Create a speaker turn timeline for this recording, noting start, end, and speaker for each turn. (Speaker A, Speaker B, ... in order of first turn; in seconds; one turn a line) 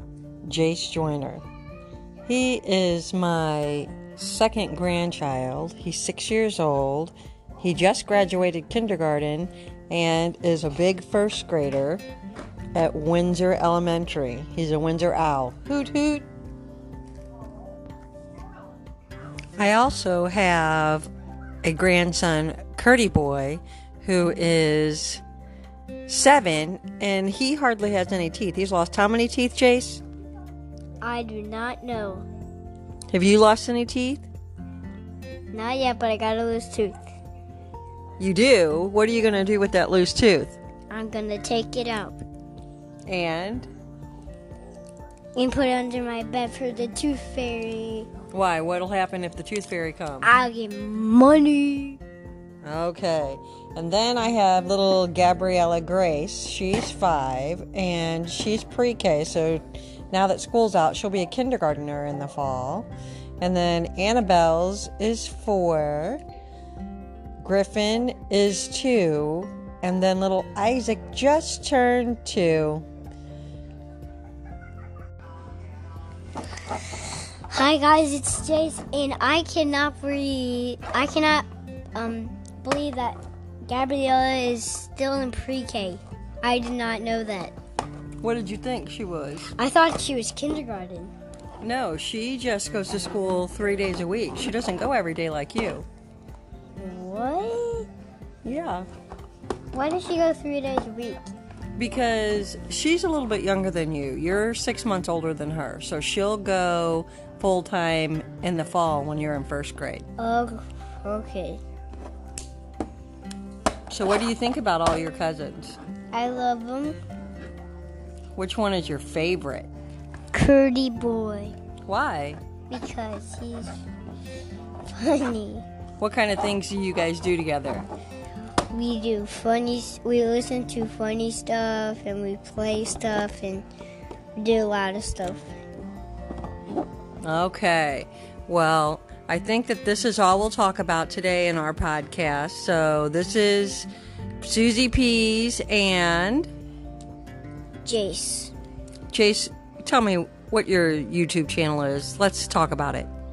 Speaker A: 0.4-1.4
Speaker A: 2.2-12.0
Speaker A: 12.7-16.3
Speaker A: 19.6-21.1
Speaker A: 21.6-25.2
Speaker A: 26.1-30.0
Speaker B: 31.0-32.2
Speaker A: 33.1-34.3
Speaker B: 35.5-37.0
Speaker A: 38.2-40.5
Speaker B: 40.9-42.2
Speaker A: 43.1-43.7
Speaker B: 45.4-48.1
Speaker A: 48.3-50.3
Speaker B: 50.2-52.0
Speaker A: 52.6-62.9
Speaker A: 63.4-66.2
Speaker A: 67.4-72.8
Speaker B: 77.5-87.5
Speaker A: 88.2-89.5
Speaker B: 89.5-91.1
Speaker A: 91.6-95.8
Speaker B: 96.8-97.9
Speaker A: 98.4-98.9
Speaker B: 99.7-101.3
Speaker A: 101.8-110.0
Speaker B: 110.2-111.6
Speaker A: 113.9-115.8
Speaker B: 116.1-117.0
Speaker A: 118.3-119.7
Speaker B: 120.3-121.5
Speaker A: 121.8-122.4
Speaker B: 122.7-123.7
Speaker B: 124.9-125.6
Speaker A: 126.0-127.9
Speaker B: 128.7-133.7
Speaker B: 134.3-135.5
Speaker A: 137.2-143.9
Speaker A: 144.4-146.5
Speaker B: 147.8-148.5
Speaker A: 149.1-153.1